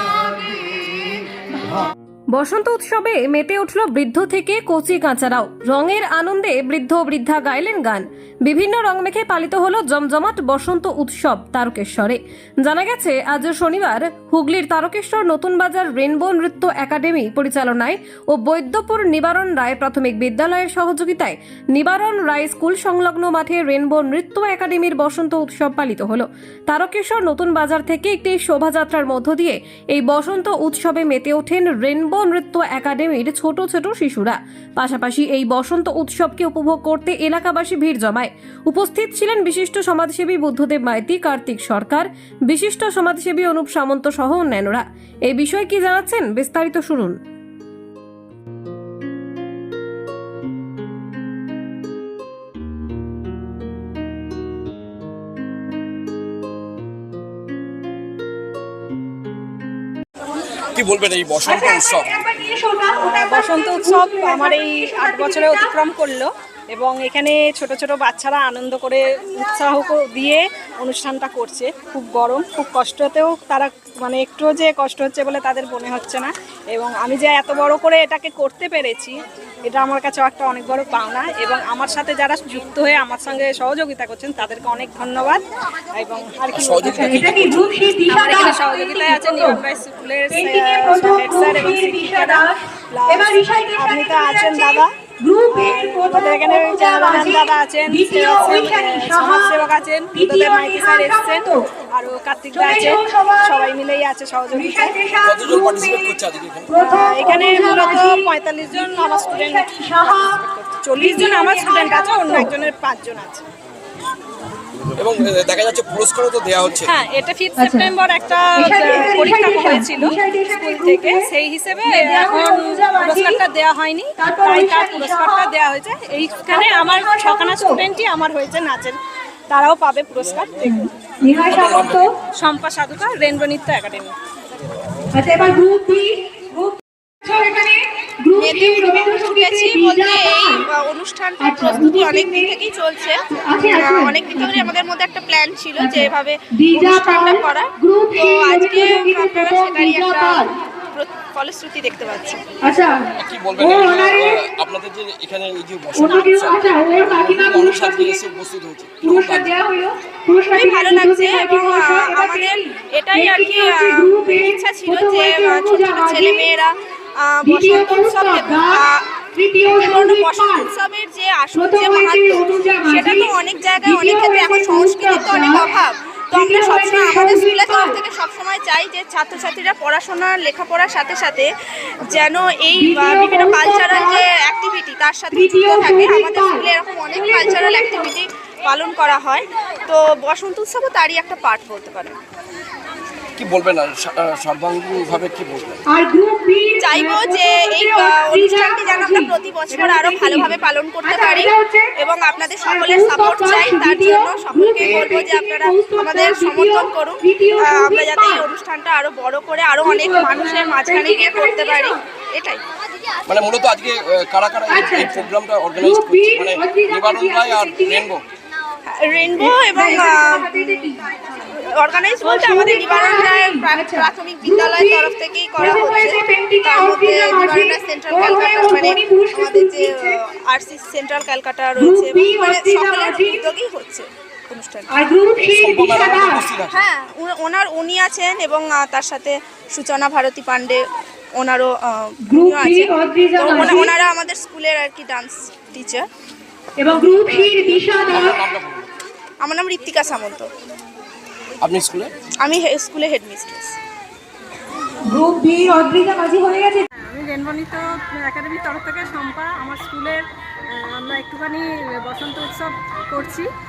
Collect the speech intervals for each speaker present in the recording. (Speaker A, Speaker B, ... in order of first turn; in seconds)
Speaker A: 2.3-47.1
Speaker B: 60.7-62.1, 86.5-87.8, 105.2-106.7, 115.0-116.9, 131.5-132.0, 153.2-159.5, 193.4-195.8, 213.3-218.2, 235.5-236.8, 248.1-248.9, 251.6-252.1
Speaker C: 61.4-65.7, 87.0-89.6, 90.3-101.5, 102.5-103.7, 104.5-106.2, 106.7-110.4, 111.0-112.5, 117.6-117.9, 118.5-121.3, 121.8-123.4, 124.2-125.5, 126.5-127.8, 130.7-132.2, 135.1-140.7, 141.4-142.6, 143.3-144.7, 145.8-150.6, 152.6-154.4, 155.9-158.2, 159.0-166.5, 167.4-170.7, 171.5-175.7, 176.3-178.0, 182.7-184.2, 185.3-188.1, 195.9-201.9, 202.6-208.5, 209.8-212.0, 214.7-215.2, 215.8-218.0, 219.4-221.0, 222.2-230.2, 231.8-233.4, 234.9-236.4, 242.3-243.9, 246.8-248.3, 255.0-256.9
Speaker D: 62.9-79.1, 79.7-85.4, 86.0-87.0, 88.1-94.8, 95.6-105.0, 106.8-113.4, 116.9-129.0, 129.5-130.8, 132.4-134.1, 257.0-263.5
Speaker E: 138.4-152.4, 160.5-169.0, 169.7-181.5, 182.0-192.2, 196.8-212.6, 218.9-220.9, 221.5-234.9, 236.7-240.8, 241.3-246.1, 249.4-250.5, 252.4-253.8